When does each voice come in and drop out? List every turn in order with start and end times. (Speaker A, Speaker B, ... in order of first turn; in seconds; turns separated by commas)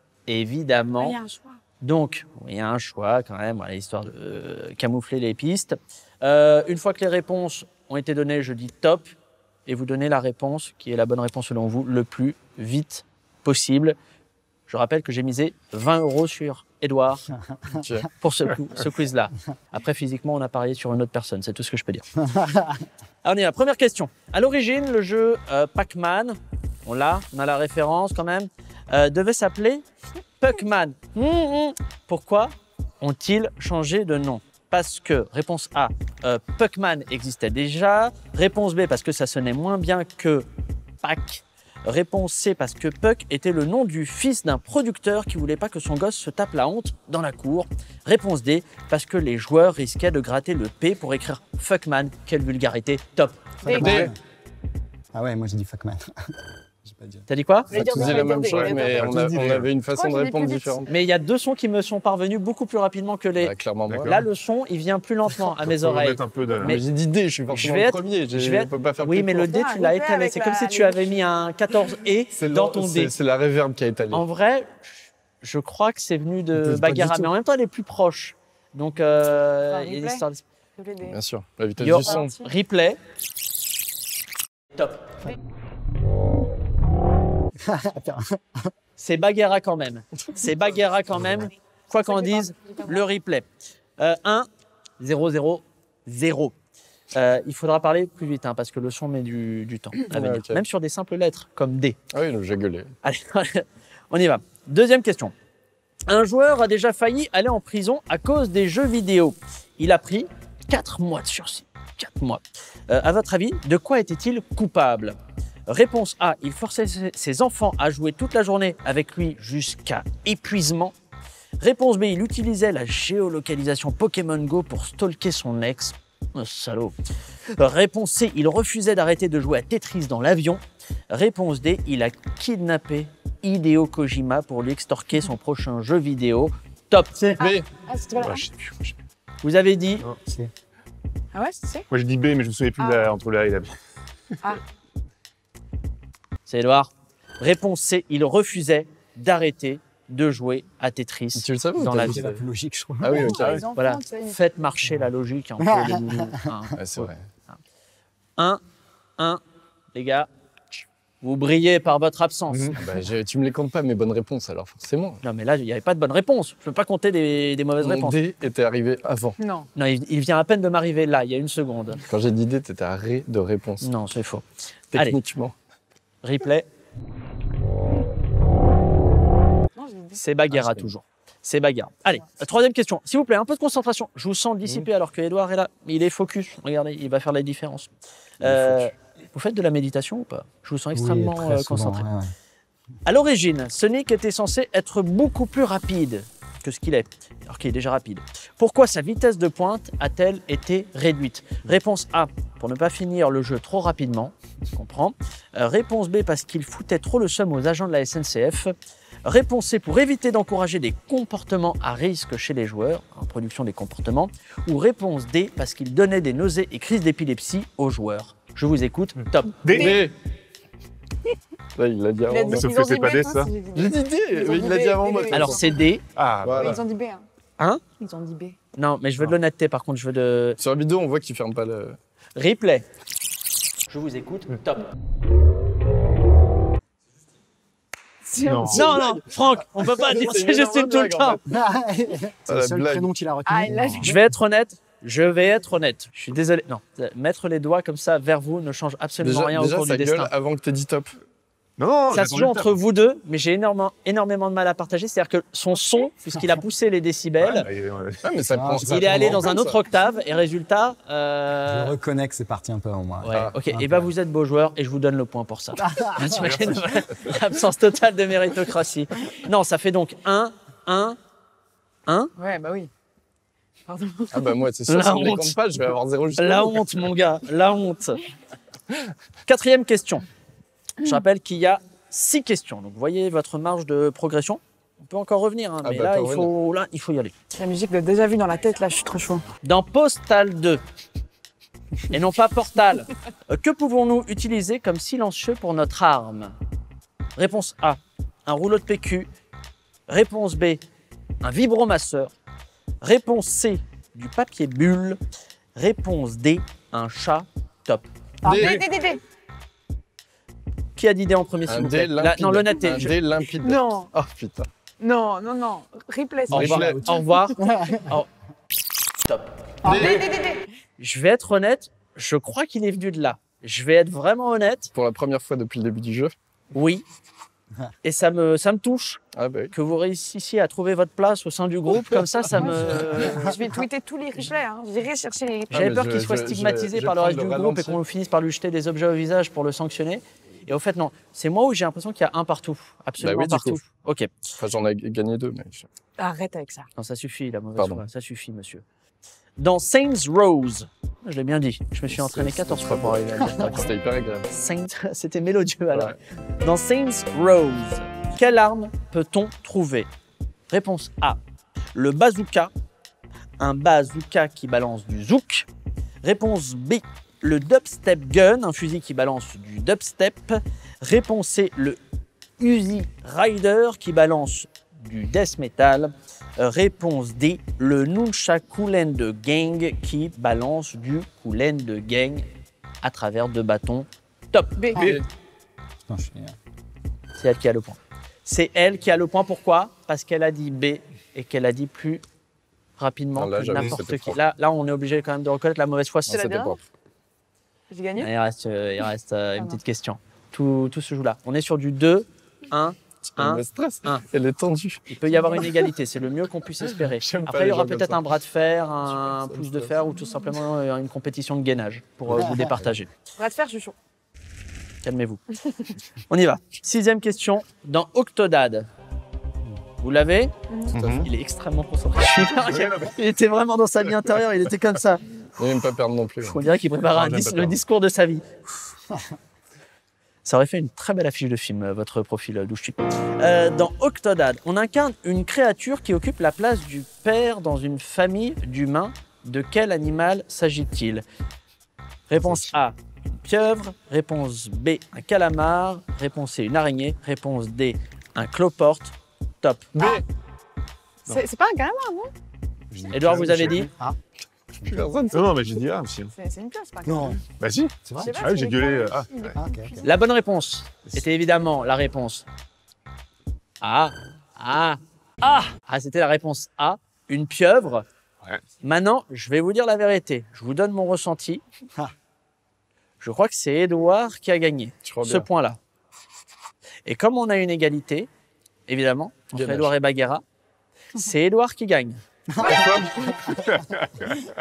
Speaker A: 0.3-1.2, Speaker B: 1.0-1.6, Speaker A: 1.8-9.1, Speaker A: 9.7-14.0, Speaker A: 14.7-17.3, Speaker C: 17.5-17.8, Speaker D: 17.7-18.1, Speaker A: 18.2-22.1, Speaker C: 22.2-22.9, Speaker A: 23.2-29.9, Speaker A: 30.4-40.5, Speaker A: 41.0-54.0, Speaker B: 53.6-54.0, Speaker C: 53.7-54.2, Speaker D: 53.7-54.1, Speaker C: 55.1-56.1, Speaker C: 56.9-57.3, Speaker A: 57.3-57.7, Speaker B: 57.7-59.0, Speaker D: 57.7-60.9, Speaker E: 57.7-59.7, Speaker C: 57.8-58.3, Speaker B: 59.9-60.9, Speaker A: 60.9-66.8, Speaker D: 63.4-64.2, Speaker E: 63.9-64.3, Speaker E: 65.5-66.8, Speaker D: 66.6-69.6, Speaker A: 67.5-73.1, Speaker B: 69.5-71.2, Speaker D: 72.3-74.2, Speaker A: 74.1-80.4, Speaker D: 76.5-77.3, Speaker B: 79.7-80.3, Speaker B: 80.8-81.2, Speaker D: 81.0-82.4, Speaker A: 81.8-83.0, Speaker B: 82.1-82.5, Speaker A: 84.7-85.2, Speaker C: 87.6-88.7, Speaker A: 89.0-93.5, Speaker B: 92.1-93.0, Speaker A: 94.0-94.5, Speaker A: 95.0-96.5, Speaker A: 97.1-102.0, Speaker D: 100.0-100.6, Speaker D: 102.1-102.9, Speaker A: 103.0-105.3, Speaker A: 106.1-115.2, Speaker A: 115.7-121.0, Speaker A: 121.6-127.0, Speaker A: 127.6-137.4, Speaker B: 137.4-138.4, Speaker D: 137.4-137.7, Speaker E: 138.2-138.9, Speaker A: 139.4-140.1, Speaker C: 140.1-140.5, Speaker B: 141.3-141.9, Speaker E: 141.9-143.7, Speaker B: 142.8-143.1, Speaker A: 146.5-152.3, Speaker D: 151.4-152.4, Speaker C: 152.0-153.4, Speaker D: 153.0-153.7, Speaker B: 153.1-154.4, Speaker A: 153.7-157.6, Speaker C: 155.6-156.5, Speaker D: 156.8-157.2, Speaker A: 159.9-160.3, Speaker A: 161.2-162.8, Speaker D: 162.6-165.2, Speaker A: 165.2-168.2, Speaker D: 167.8-169.4, Speaker B: 169.4-169.7, Speaker A: 169.8-172.0, Speaker D: 172.1-173.9, Speaker A: 173.8-175.2, Speaker D: 174.9-175.6, Speaker A: 176.2-176.7, Speaker B: 179.8-180.2, Speaker A: 180.1-187.9, Speaker D: 180.5-180.9, Speaker A: 188.4-192.1, Speaker D: 188.4-188.9, Speaker C: 190.9-192.3, Speaker A: 193.1-208.7, Speaker A: 209.2-220.0, Speaker B: 219.6-220.0, Speaker D: 219.7-220.1, Speaker D: 221.8-222.7, Speaker B: 222.3-225.9, Speaker E: 222.5-223.6, Speaker D: 223.7-225.6, Speaker A: 225.3-226.0, Speaker E: 226.1-226.8, Speaker D: 226.4-226.8, Speaker B: 226.5-227.3, Speaker A: 227.6-227.8, Speaker B: 228.0-228.6, Speaker A: 228.8-230.6, Speaker D: 230.6-232.0, Speaker A: 232.4-232.9, Speaker A: 233.9-234.9, Speaker B: 238.3-238.9, Speaker E: 238.4-239.0, Speaker A: 238.7-241.4, Speaker D: 238.9-241.5, Speaker C: 241.5-244.2, Speaker D: 242.5-243.1, Speaker B: 243.5-244.1, Speaker A: 244.0-250.3, Speaker D: 249.2-251.1, Speaker E: 251.8-252.8, Speaker A: 252.1-257.7, Speaker E: 257.4-258.2, Speaker D: 258.2-259.8, Speaker C: 258.4-259.4, Speaker A: 258.8-261.9, Speaker C: 261.7-264.1, Speaker A: 263.2-271.2, Speaker D: 263.3-263.6, Speaker C: 265.8-266.6, Speaker E: 266.4-266.7, Speaker A: 272.1-272.3, Speaker B: 272.4-272.9, Speaker B: 273.9-274.5, Speaker D: 274.3-277.1, Speaker A: 274.9-275.6, Speaker A: 276.4-278.2, Speaker A: 279.5-280.2, Speaker A: 281.0-287.4, Speaker D: 285.8-286.5, Speaker B: 287.5-289.5, Speaker A: 289.6-290.8, Speaker A: 292.1-296.5, Speaker A: 297.4-299.3, Speaker A: 300.1-300.8, Speaker A: 301.4-302.3, Speaker A: 303.0-305.2, Speaker A: 305.8-308.1, Speaker B: 308.4-309.2, Speaker D: 308.4-308.9, Speaker A: 311.0-313.1, Speaker D: 311.7-314.7, Speaker B: 313.6-314.1, Speaker B: 315.0-317.5, Speaker D: 316.5-317.1, Speaker A: 316.5-318.3, Speaker C: 316.7-317.1, Speaker C: 317.6-318.0, Speaker D: 319.8-320.3, Speaker C: 319.9-320.1, Speaker B: 319.9-320.6, Speaker A: 321.0-324.9, Speaker D: 324.9-326.3, Speaker A: 326.7-327.1, Speaker A: 328.0-329.2, Speaker D: 329.3-329.7, Speaker A: 329.7-333.6, Speaker C: 332.5-333.6, Speaker B: 332.6-335.8, Speaker D: 332.8-333.3, Speaker D: 335.7-338.0, Speaker A: 335.7-344.3, Speaker D: 343.2-343.8, Speaker D: 344.6-345.9, Speaker B: 346.2-346.9, Speaker A: 346.9-348.8, Speaker D: 347.8-348.0, Speaker A: 349.6-353.9, Speaker D: 352.1-354.5, Speaker A: 354.5-360.1, Speaker A: 360.7-361.4, Speaker A: 361.9-362.7, Speaker A: 363.6-365.7, Speaker A: 366.2-372.0, Speaker A: 372.6-382.5, Speaker A: 383.0-385.2, Speaker B: 384.8-385.2, Speaker D: 384.9-385.2, Speaker C: 386.1-386.6, Speaker A: 387.4-392.2, Speaker A: 393.0-396.5, Speaker D: 393.4-394.4, Speaker D: 396.3-396.8, Speaker B: 396.3-396.8, Speaker B: 397.9-398.3, Speaker A: 398.2-404.2, Speaker D: 403.4-405.0, Speaker A: 405.1-413.1, Speaker D: 407.0-408.2, Speaker D: 409.1-409.9, Speaker C: 412.3-412.8, Speaker B: 413.4-414.0, Speaker A: 415.0-418.9, Speaker A: 420.0-425.2, Speaker B: 420.7-421.0, Speaker D: 420.9-421.3, Speaker D: 425.6-426.6, Speaker A: 426.4-428.4, Speaker D: 427.1-427.7, Speaker A: 430.4-441.2, Speaker A: 442.3-450.0, Speaker B: 450.0-450.2, Speaker B: 451.2-452.3, Speaker E: 452.9-453.9, Speaker A: 453.1-453.9, Speaker C: 453.8-454.2, Speaker D: 454.8-455.5, Speaker C: 454.8-455.1, Speaker E: 455.3-456.3, Speaker B: 456.3-457.4, Speaker C: 457.1-457.4, Speaker E: 457.5-459.6, Speaker C: 458.1-458.5, Speaker B: 458.1-460.1, Speaker C: 459.6-460.1, Speaker A: 460.0-462.4, Speaker A: 463.8-468.1, Speaker A: 468.8-471.6, Speaker A: 473.2-475.8, Speaker D: 475.0-475.5, Speaker A: 477.1-478.3, Speaker A: 478.9-480.4, Speaker D: 479.5-479.9, Speaker A: 481.2-482.2, Speaker C: 482.6-483.6, Speaker D: 482.6-483.5, Speaker E: 483.5-484.4